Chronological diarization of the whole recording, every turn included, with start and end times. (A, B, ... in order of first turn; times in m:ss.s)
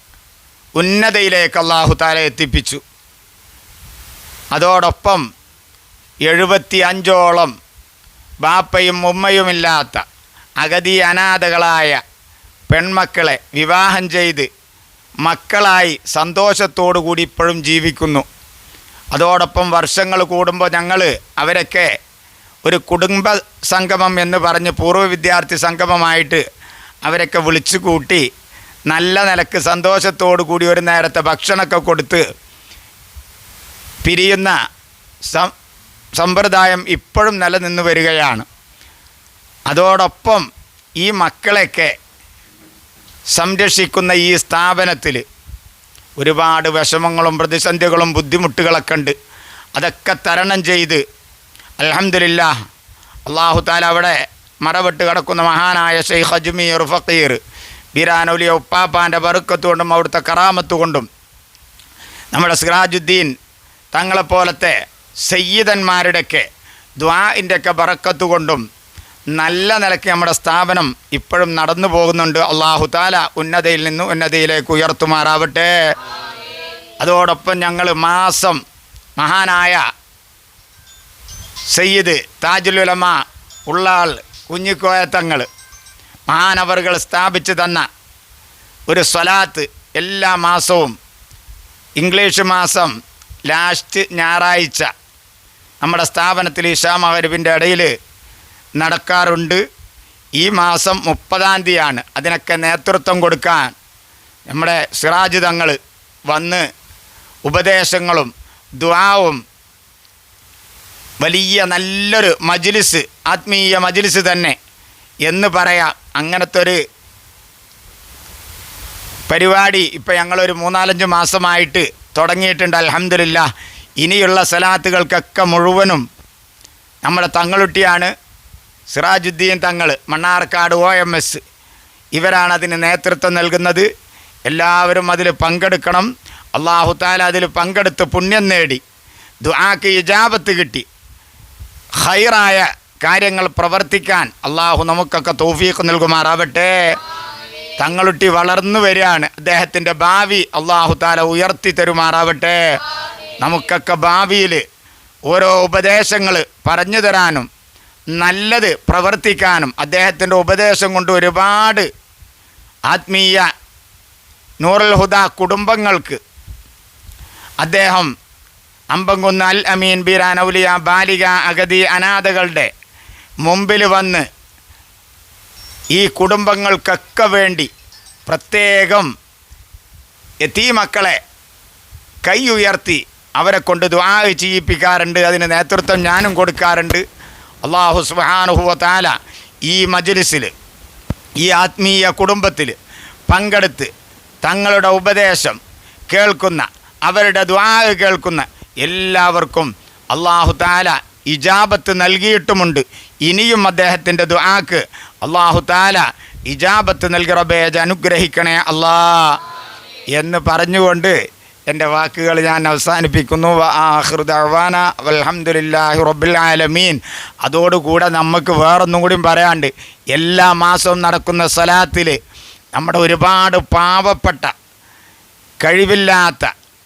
0:00.8-0:02.8 A
0:04.5-0:05.2 A
0:06.2-0:07.5 A
0:08.4-0:10.0 A
0:10.6-0:12.0 A
0:12.7-0:14.5 A
0:15.2-0:18.2 A
0:19.1-0:21.9 A
0:22.6-0:26.4 A
0:27.0-0:28.2 A
0:28.9-0:32.2 A
0:34.0-0:34.6 A
0:35.3-0:35.5 A
0:36.2-0:38.4 A
0:39.7-0:40.5 A
0:41.0-0:41.9 A
0:43.4-0:45.2 A
0:46.2-0:49.1 A
0:49.8-0:51.0 A
0:51.8-0:52.5 A
0:53.3-0:57.4 A
0:58.0-1:01.1 A
1:02.3-1:03.3 A
1:03.9-1:04.8 A
1:05.3-1:06.4 A
1:07.0-1:08.6 A
1:09.4-1:15.7 A
1:17.0-1:18.6 A
1:19.2-1:19.8 A
1:21.7-1:25.5 A
1:26.3-1:27.9 A
1:28.9-1:30.9 A
1:32.0-1:32.9 A
1:33.5-1:34.9 A
1:35.8-1:37.9 A
1:38.8-1:39.6 A
1:40.4-1:43.7 A
1:44.5-1:45.8 A
1:46.3-1:46.6 A
1:47.5-1:49.4 A
1:51.2-1:54.6 A
1:55.2-1:56.8 A
1:59.3-2:03.5 A
2:04.0-2:06.0 A
2:07.0-2:08.1 A
2:08.9-2:11.4 A
2:12.2-2:13.9 A
2:14.5-2:18.8 A
2:19.4-2:20.9 A
2:22.0-2:26.7 A
2:27.8-2:32.6 A
2:33.4-2:34.6 A
2:35.3-2:37.5 A
2:38.2-2:41.9 A
2:42.9-2:43.5 A
2:44.6-2:46.2 A
2:47.6-2:48.1 A
2:48.9-2:52.7 A
2:53.4-2:54.2 A
2:55.9-2:57.7 A
2:58.3-2:59.1 A
3:00.4-3:01.2 A
3:02.2-3:07.0 A
3:07.6-3:09.1 A
3:09.7-3:10.5 A
3:11.4-3:12.8 A
3:13.3-3:13.9 A
3:14.4-3:29.4 A
3:30.2-3:31.2 A
3:31.7-3:42.2 A
3:42.8-3:44.5 A
3:45.6-3:46.5 A